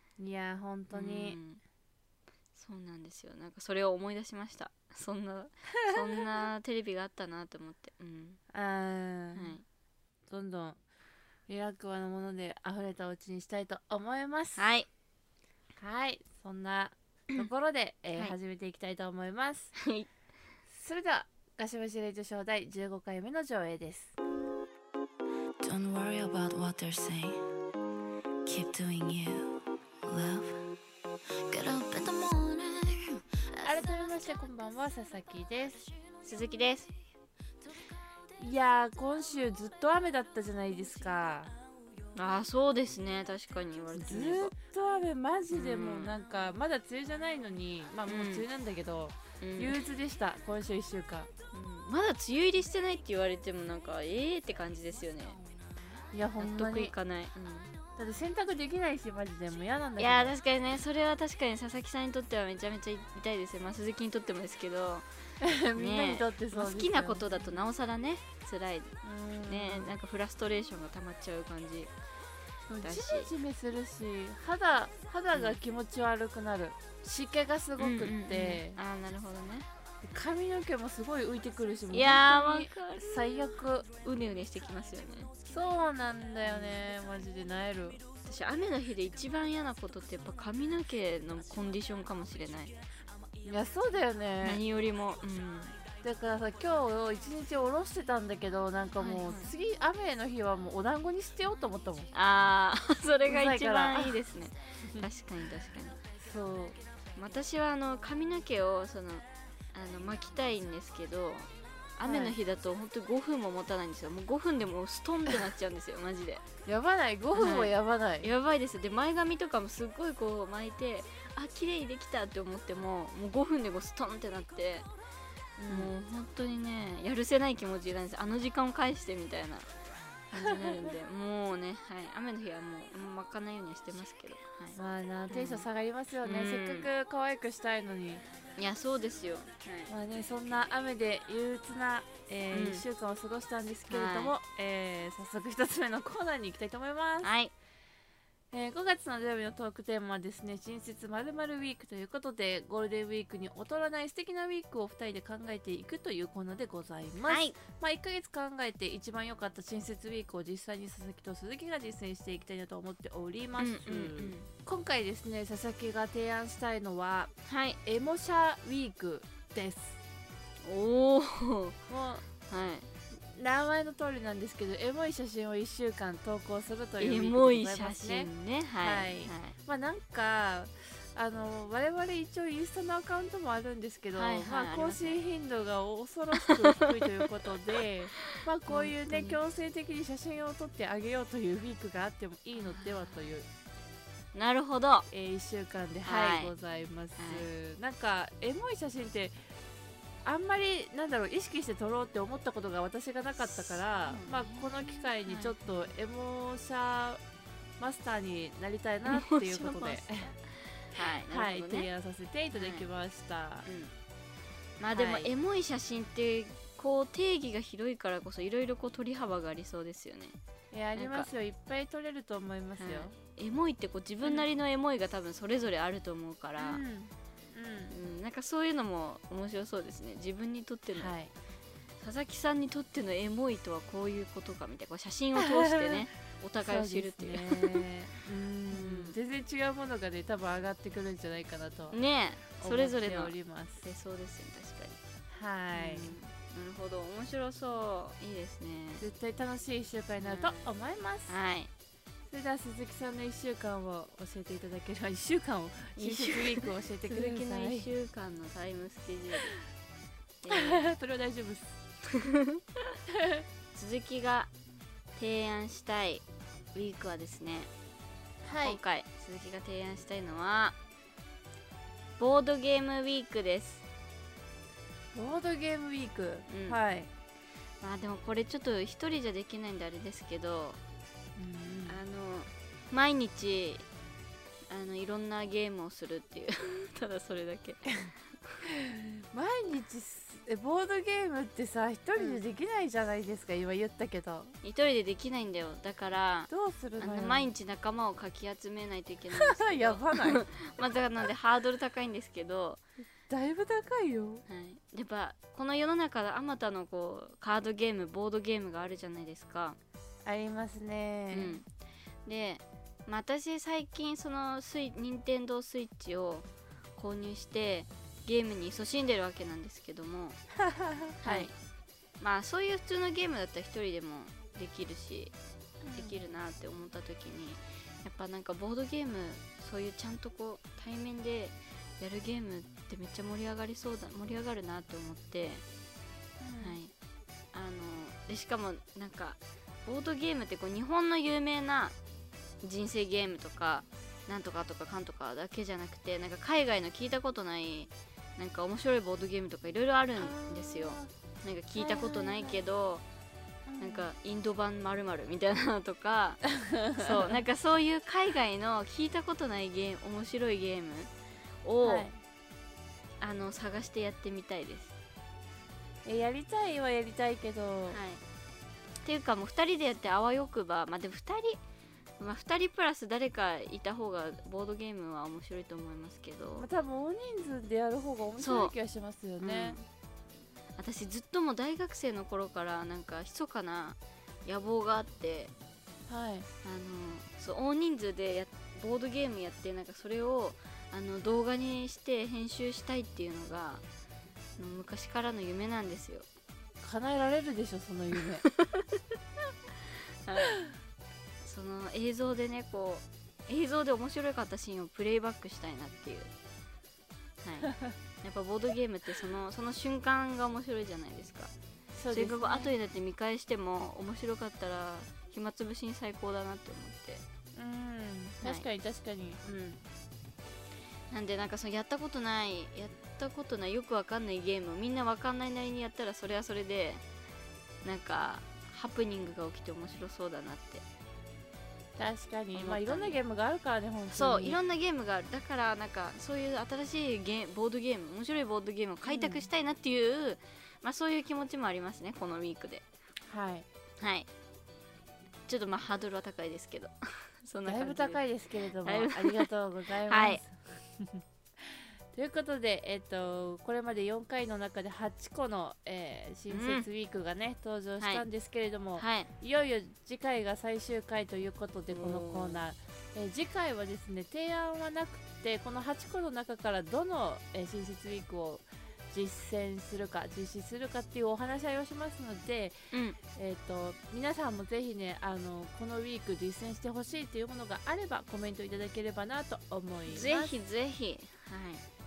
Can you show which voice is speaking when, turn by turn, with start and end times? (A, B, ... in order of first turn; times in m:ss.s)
0:00.2-0:01.4 A
0:00.9-0:01.6 B
0:02.6-0:08.4 B
0:08.5-0:09.6 A
0:09.4-0:09.6 B
0:10.3-0:10.8 A
0:11.5-0:14.7 A
0:14.6-0:14.9 B
0:15.8-0:19.7 A
0:19.8-0:20.1 B
0:20.7-0:24.2 A
0:25.6-0:27.4 C
0:28.5-0:29.4 C
0:30.1-0:30.5 C
0:31.5-0:33.2 C
0:33.6-0:35.8 A
0:36.2-0:36.9 B
0:38.4-0:41.5 A
0:42.2-0:44.5 B
0:44.0-0:51.3 A
0:45.5-0:46.2 B
0:48.1-0:48.5 B
0:49.4-0:49.8 B
0:51.5-0:55.4 B
0:56.1-0:56.9 A
0:56.4-0:57.7 B
0:58.0-1:00.3 A
1:00.0-1:05.1 B
1:05.4-1:07.2 A
1:05.8-1:08.9 B
1:09.0-1:09.9 A
1:09.5-1:11.9 B
1:12.7-1:18.8 A
1:12.8-1:13.3 B
1:17.8-1:19.7 B
1:20.0-1:23.9 A
1:21.9-1:23.3 B
1:23.9-1:25.3 B
1:25.5-1:28.0 A
1:26.4-1:26.8 B
1:28.2-1:32.7 B
1:33.4-1:34.6 A
1:34.4-1:35.8 B
1:36.0-1:42.1 A
1:39.0-1:39.5 B
1:42.1-1:46.0 B
1:43.3-1:44.2 A
1:46.2-1:46.8 A
1:47.2-1:56.4 B
1:52.0-1:52.4 A
1:56.6-1:58.3 A
1:57.4-2:04.9 B
2:05.6-2:05.9 A
2:05.7-2:09.7 B
2:10.3-2:14.8 B
2:10.4-2:10.9 A
2:14.8-2:18.2 A
2:15.3-2:15.7 B
2:16.2-2:16.9 B
2:18.6-2:19.9 B
2:19.9-2:27.3 A
2:22.5-2:22.8 B
2:23.9-2:24.4 B
2:27.2-2:27.5 B
2:28.5-2:47.3 A
2:37.3-2:37.6 B
2:43.6-2:44.5 B
2:47.5-2:47.8 B
2:47.8-2:50.0 A
2:50.6-2:51.8 B
2:51.9-2:52.2 A
2:52.5-2:52.9 B
2:53.1-2:58.3 A
2:57.0-2:59.6 B
2:58.8-3:13.5 A
3:04.2-3:05.2 B
3:06.4-3:07.1 B
3:08.7-3:09.4 B
3:14.3-3:15.1 B
3:15.1-3:19.4 A
3:16.0-3:16.5 B
3:17.2-3:17.5 B
3:20.2-3:27.2 A
3:24.1-3:25.9 B
3:27.8-3:30.3 A
3:29.1-3:30.2 B
3:30.8-3:31.9 B
3:31.0-3:33.7 A
3:32.5-3:32.9 B
3:33.7-3:33.9 B
3:34.8-3:40.4 B
3:34.9-3:35.3 A
3:40.7-3:43.1 A
3:41.0-3:41.3 B
3:42.8-3:46.8 B
3:46.6-3:48.0 A
3:47.9-3:51.1 B
3:51.0-3:51.3 A
3:52.0-3:57.8 B
3:55.4-3:56.1 A
3:56.6-4:02.0 A
3:58.7-3:59.2 B
4:01.9-4:05.0 B
4:02.6-4:03.8 A
4:05.3-4:06.2 A
4:05.7-4:09.0 B
4:09.0-4:11.4 A
4:10.2-4:10.7 B
4:11.3-4:11.7 B
4:12.3-4:17.9 A
4:16.0-4:19.6 B
4:20.4-4:20.9 B
4:20.5-4:21.7 A
4:22.1-4:22.9 B
4:23.8-4:24.5 B
4:25.2-4:27.7 B
4:28.4-4:28.8 A
4:28.6-4:30.8 B
4:32.2-4:33.8 B
4:35.1-4:37.1 A
4:36.5-4:36.8 B
4:37.8-4:40.8 B
4:41.4-4:42.0 A
4:41.9-4:43.8 B
4:44.7-4:47.9 B
4:48.6-4:54.5 A
4:52.2-4:52.4 B
4:54.6-5:02.8 B
4:56.5-4:57.5 A
4:59.4-5:00.4 A
5:03.3-5:04.4 A
5:04.5-5:09.8 B
5:10.3-5:11.6 A
5:11.3-5:11.7 B
5:12.3-5:20.4 B
5:20.7-5:21.5 A
5:21.2-5:21.5 B
5:22.2-5:25.3 B
5:25.8-5:26.2 A
5:26.0-5:35.6 B
5:36.4-5:36.8 A
5:36.6-5:36.9 B
5:37.5-5:42.0 B
5:42.6-5:53.0 B
5:50.2-5:51.1 A
5:51.8-5:52.6 A
5:53.7-5:54.1 A
5:53.8-6:01.1 B
5:56.6-5:57.4 A
6:01.6-6:02.1 B
6:01.8-6:02.2 A
6:03.2-6:05.0 B
6:06.0-6:08.0 A
6:07.9-6:08.2 B
6:09.0-6:11.6 B
6:12.2-6:16.7 B
6:16.6-6:19.8 A
6:18.4-6:18.7 B
6:19.4-6:19.8 B
6:20.8-6:25.5 B
6:26.1-6:26.5 A
6:26.6-6:33.8 B
6:34.6-6:36.3 B
6:36.8-6:38.4 A
6:38.4-6:39.0 B
6:40.2-6:40.6 B
6:41.4-6:46.3 B
6:47.4-6:51.5 B
6:47.7-6:47.9 A
6:52.0-6:52.7 A
6:52.1-6:57.2 B
6:57.6-6:59.4 A
6:59.4-6:59.8 B
7:01.1-7:07.0 B
7:07.8-7:10.8 B
7:12.0-7:14.6 A
7:12.6-7:13.2 B
7:14.1-7:22.8 B
7:19.1-7:19.5 A
7:23.3-7:23.7 A
7:24.0-7:24.3 B
7:25.5-7:28.2 B
7:27.7-7:52.8 A
7:28.8-7:29.5 B
7:30.1-7:30.4 B
7:36.5-7:36.9 B
7:39.0-7:39.3 B
7:41.9-7:42.6 B
7:52.9-7:53.2 B
7:53.4-8:00.5 A
8:00.1-8:01.8 B